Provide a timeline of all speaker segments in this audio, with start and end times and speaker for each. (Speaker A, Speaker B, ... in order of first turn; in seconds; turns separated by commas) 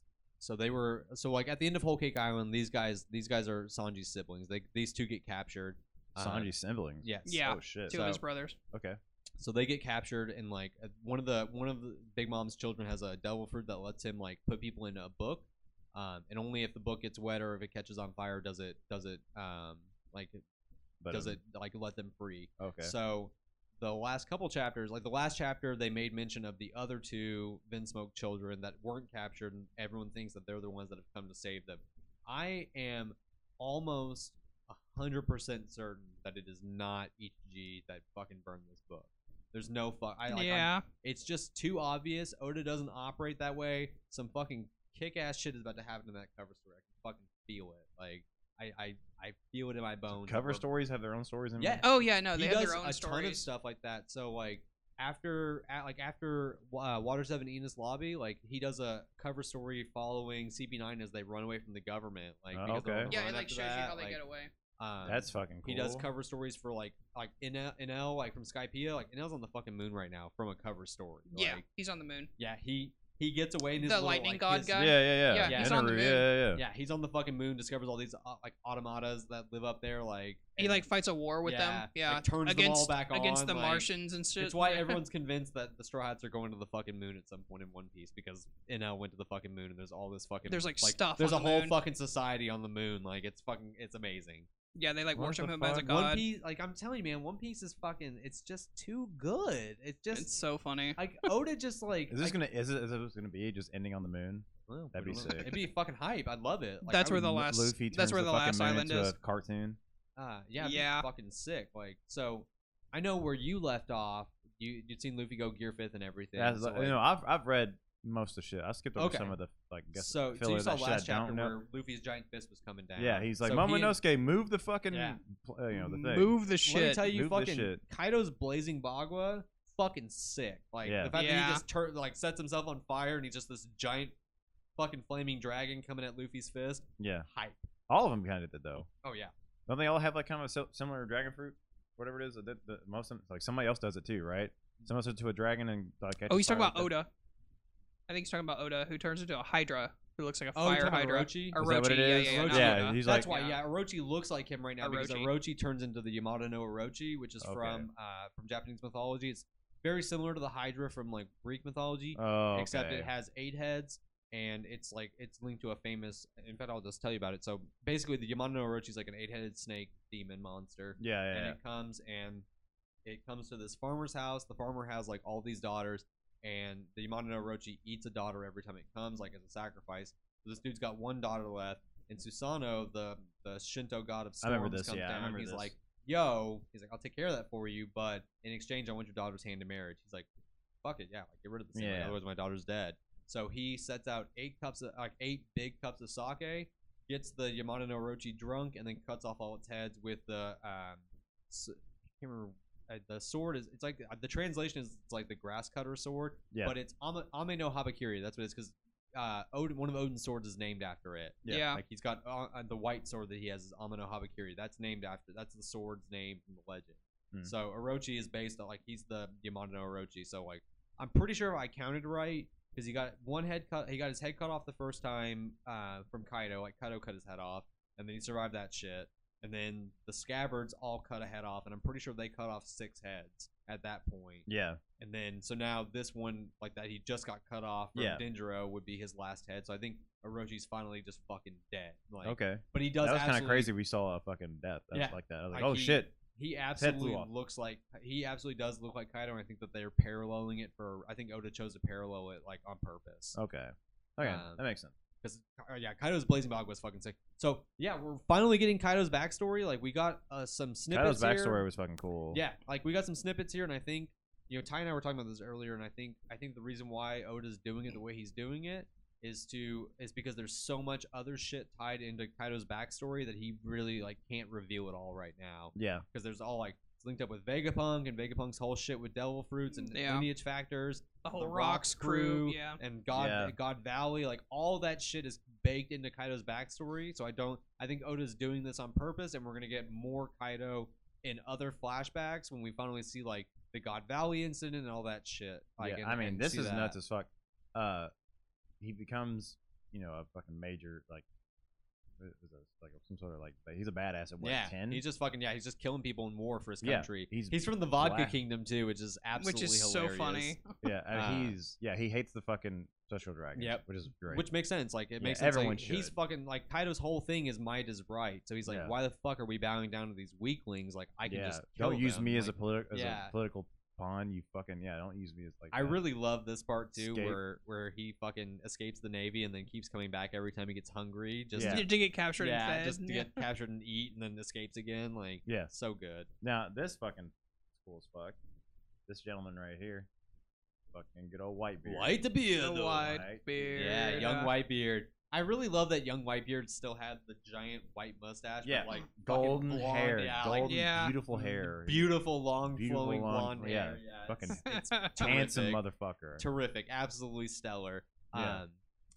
Speaker A: 0.4-6.5, Speaker B: 6.2-8.2, Speaker A: 7.0-8.1, Speaker C: 7.3-8.6, Speaker B: 8.7-9.0, Speaker A: 9.4-20.4, Speaker B: 21.0-21.4, Speaker A: 21.1-50.7, Speaker B: 22.6-22.9, Speaker C: 40.3-40.9, Speaker B: 50.1-51.8, Speaker A: 51.6-64.2, Speaker C: 51.8-53.5, Speaker B: 62.5-63.1, Speaker C: 63.1-64.5, Speaker A: 64.8-71.6, Speaker B: 65.0-66.1, Speaker C: 71.3-72.3, Speaker A: 72.4-76.0, Speaker C: 73.8-76.3, Speaker B: 74.8-76.6, Speaker A: 76.5-80.9, Speaker C: 80.6-85.0, Speaker A: 81.4-94.5, Speaker C: 90.5-91.8, Speaker C: 94.8-96.2, Speaker B: 95.1-95.9, Speaker A: 95.8-100.3, Speaker C: 100.1-101.3, Speaker A: 101.0-102.4, Speaker B: 102.1-105.5, Speaker A: 104.7-107.2, Speaker C: 105.3-105.7, Speaker C: 106.8-109.2, Speaker B: 107.1-109.8, Speaker A: 110.2-117.0, Speaker C: 110.6-111.1, Speaker B: 116.4-121.6, Speaker A: 119.0-119.3, Speaker A: 119.9-124.0, Speaker B: 123.0-126.3, Speaker A: 124.9-125.2, Speaker C: 125.7-127.0, Speaker A: 126.7-134.1, Speaker B: 127.0-127.8, Speaker B: 130.8-131.2, Speaker C: 131.1-131.6, Speaker A: 134.8-137.7, Speaker B: 137.0-137.3, Speaker B: 137.9-138.9, Speaker A: 139.0-139.3, Speaker B: 139.7-146.9, Speaker C: 146.3-147.1, Speaker C: 148.1-153.6, Speaker A: 150.6-151.7, Speaker B: 151.5-153.3, Speaker A: 152.2-172.5, Speaker C: 154.8-155.3, Speaker B: 157.4-157.9, Speaker B: 162.2-163.1, Speaker B: 171.0-171.6, Speaker A: 173.1-190.3, Speaker B: 184.4-185.7, Speaker A: 190.8-234.5, Speaker B: 191.7-192.2, Speaker C: 211.5-211.8, Speaker B: 234.5-234.8, Speaker A: 235.0-243.7, Speaker B: 237.9-238.2, Speaker B: 242.2-246.2, Speaker A: 244.9-253.4, Speaker B: 246.8-247.3, Speaker B: 253.3-254.9, Speaker A: 254.2-254.6, Speaker A: 255.2-261.6, Speaker B: 260.9-262.4, Speaker A: 262.3-297.0, Speaker B: 275.7-276.1, Speaker C: 279.7-280.3, Speaker C: 281.2-282.8, Speaker B: 283.1-283.6, Speaker B: 295.8-298.1, Speaker B: 298.8-301.2, Speaker B: 302.2-305.0, Speaker A: 304.4-310.6, Speaker B: 306.8-308.4, Speaker C: 309.4-310.7, Speaker B: 310.8-314.5, Speaker A: 311.1-311.6, Speaker A: 313.6-323.3, Speaker B: 315.2-316.1, Speaker B: 318.7-318.9, Speaker B: 321.2-326.0, Speaker A: 325.7-336.3, Speaker B: 327.0-327.4, Speaker B: 331.5-331.9, Speaker C: 331.6-333.4, Speaker B: 335.5-335.7, Speaker B: 336.4-338.4, Speaker B: 339.1-340.1, Speaker B: 340.9-343.9, Speaker A: 341.8-355.8, Speaker C: 342.6-344.5, Speaker B: 348.6-352.1, Speaker C: 350.6-351.2, Speaker B: 352.7-356.5, Speaker C: 354.7-355.4, Speaker A: 356.4-358.8, Speaker B: 358.3-358.6